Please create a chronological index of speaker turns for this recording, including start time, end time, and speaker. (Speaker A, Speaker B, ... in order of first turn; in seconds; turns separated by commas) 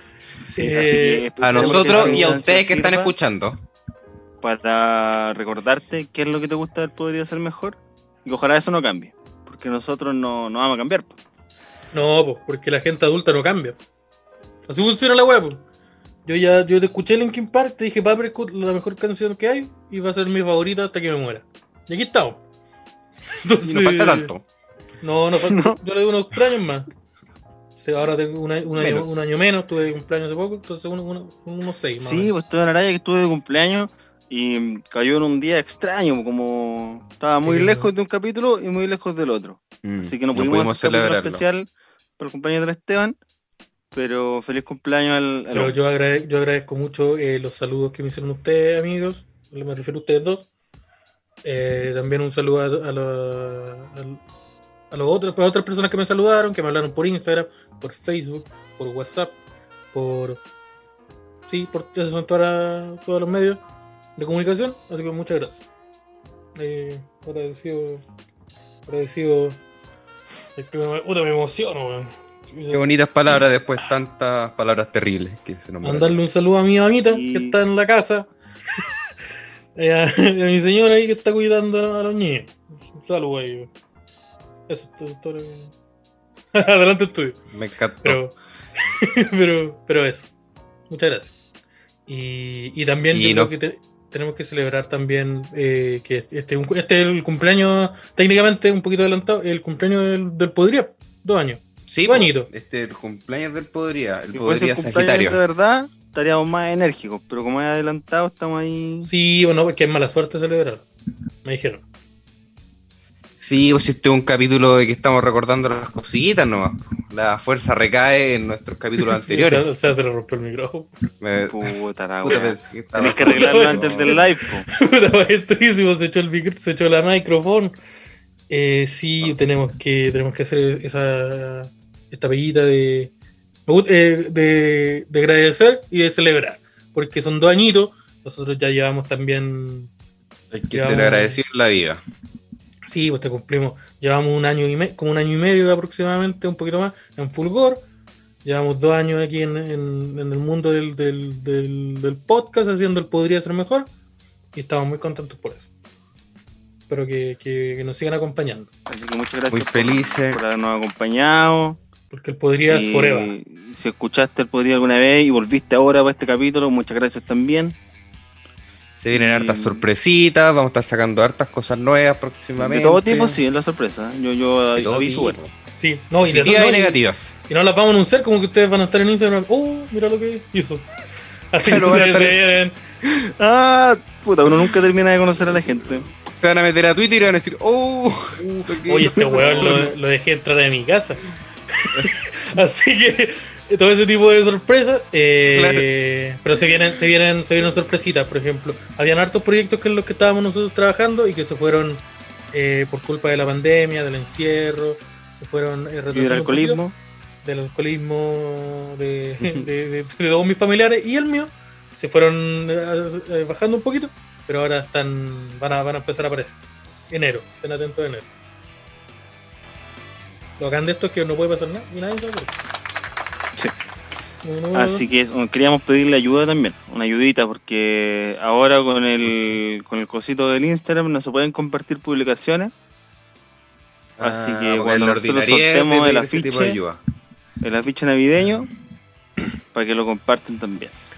Speaker A: 0.4-3.1, Speaker B: 0.5-2.4, Speaker C: 1.4-3.6, Speaker A: 4.4-11.1, Speaker B: 11.9-13.8, Speaker B: 14.7-15.6, Speaker B: 16.2-22.4, Speaker B: 23.4-24.3, Speaker C: 23.6-24.4, Speaker B: 25.0-26.9, Speaker A: 25.4-25.8, Speaker B: 27.8-32.3, Speaker C: 28.8-29.1, Speaker A: 32.0-43.2, Speaker B: 37.4-37.9, Speaker C: 39.8-41.4, Speaker A: 43.9-45.8, Speaker B: 45.5-50.5, Speaker B: 51.4-54.2, Speaker B: 54.9-59.4, Speaker B: 59.9-60.4, Speaker B: 61.5-63.6, Speaker B: 64.2-65.6, Speaker B: 66.6-68.0, Speaker B: 68.8-69.6, Speaker B: 70.5-73.8, Speaker C: 72.7-76.2, Speaker B: 75.8-78.3, Speaker A: 77.1-77.6, Speaker B: 79.8-83.7, Speaker B: 84.7-85.7, Speaker B: 86.5-87.4, Speaker C: 87.5-88.2, Speaker B: 88.0-90.3, Speaker B: 90.9-91.3, Speaker B: 92.1-102.5, Speaker C: 93.1-93.5, Speaker C: 101.9-105.4, Speaker A: 104.3-109.1, Speaker B: 109.0-110.8, Speaker B: 111.4-111.8, Speaker C: 113.4-119.7, Speaker B: 119.0-120.9, Speaker C: 121.2-124.2, Speaker A: 121.5-124.7, Speaker B: 123.1-127.7, Speaker B: 128.5-133.1, Speaker B: 133.7-139.9, Speaker C: 140.5-142.0, Speaker B: 140.7-141.4, Speaker B: 142.9-147.8, Speaker B: 148.4-153.9, Speaker B: 154.5-155.7, Speaker B: 156.9-158.7, Speaker A: 158.9-161.8, Speaker C: 159.5-160.4, Speaker B: 162.1-163.3, Speaker A: 162.5-167.8, Speaker C: 168.9-173.4, Speaker A: 169.1-169.8, Speaker A: 172.6-175.4, Speaker C: 174.7-175.5, Speaker B: 175.8-180.8, Speaker C: 176.2-177.3, Speaker B: 181.5-182.8, Speaker C: 181.6-182.4, Speaker A: 183.0-186.1, Speaker C: 186.3-189.9, Speaker B: 188.8-191.2, Speaker A: 189.2-189.8, Speaker B: 191.8-206.8, Speaker C: 195.5-195.9, Speaker A: 206.1-206.9, Speaker B: 207.4-218.3, Speaker B: 220.6-222.5, Speaker B: 224.4-225.1, Speaker A: 224.7-232.7, Speaker C: 234.2-237.0, Speaker A: 234.2-236.8, Speaker A: 237.6-238.7, Speaker A: 239.7-240.9